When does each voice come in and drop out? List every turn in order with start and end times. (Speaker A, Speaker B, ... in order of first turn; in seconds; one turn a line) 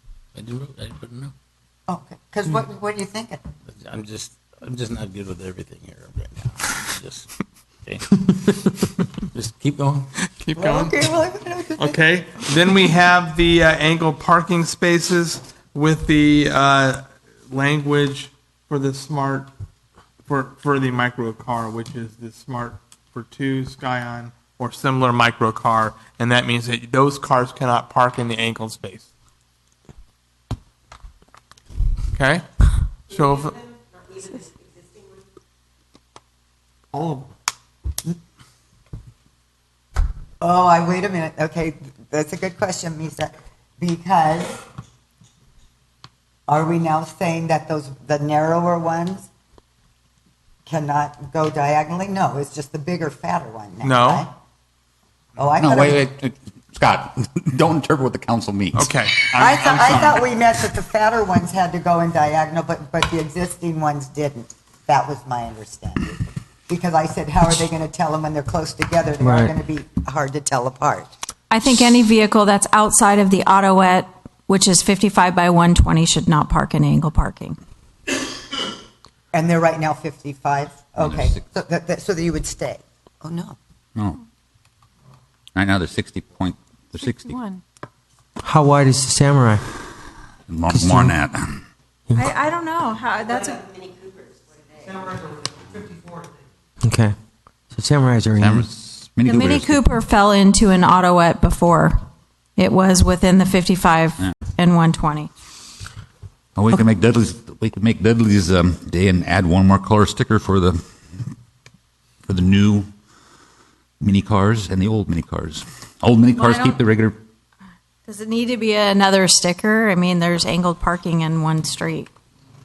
Speaker A: 0.3-1.3
Speaker B: 1.9-3.4
Speaker A: 3.7-7.3
Speaker A: 9.3-10.1
Speaker C: 10.4-10.9
Speaker B: 10.5-12.0
Speaker C: 11.8-19.5
Speaker C: 20.2-29.0
Speaker C: 32.1-32.4
Speaker C: 33.1-33.6
Speaker B: 36.9-37.3
Speaker B: 40.4-44.6
Speaker B: 46.5-49.3
Speaker B: 50.6-54.3
Speaker C: 53.8-54.2
Speaker B: 55.4-56.0
Speaker D: 55.5-60.1
Speaker C: 58.7-59.7
Speaker B: 59.3-71.1
Speaker E: 69.2-69.5
Speaker F: 71.5-77.6
Speaker B: 79.3-83.5
Speaker D: 81.0-81.4
Speaker D: 85.5-87.3
Speaker F: 87.0-87.6
Speaker E: 88.4-89.6
Speaker D: 90.5-91.6
Speaker E: 90.7-91.1
Speaker F: 92.2-93.8
Speaker E: 96.8-97.1
Speaker E: 97.7-98.6
Speaker D: 98.4-99.9
Speaker F: 99.2-102.0
Speaker F: 102.5-105.3
Speaker D: 106.5-110.8
Speaker D: 112.2-112.9
Speaker D: 114.0-117.2
Speaker F: 116.3-116.8
Speaker F: 118.1-122.1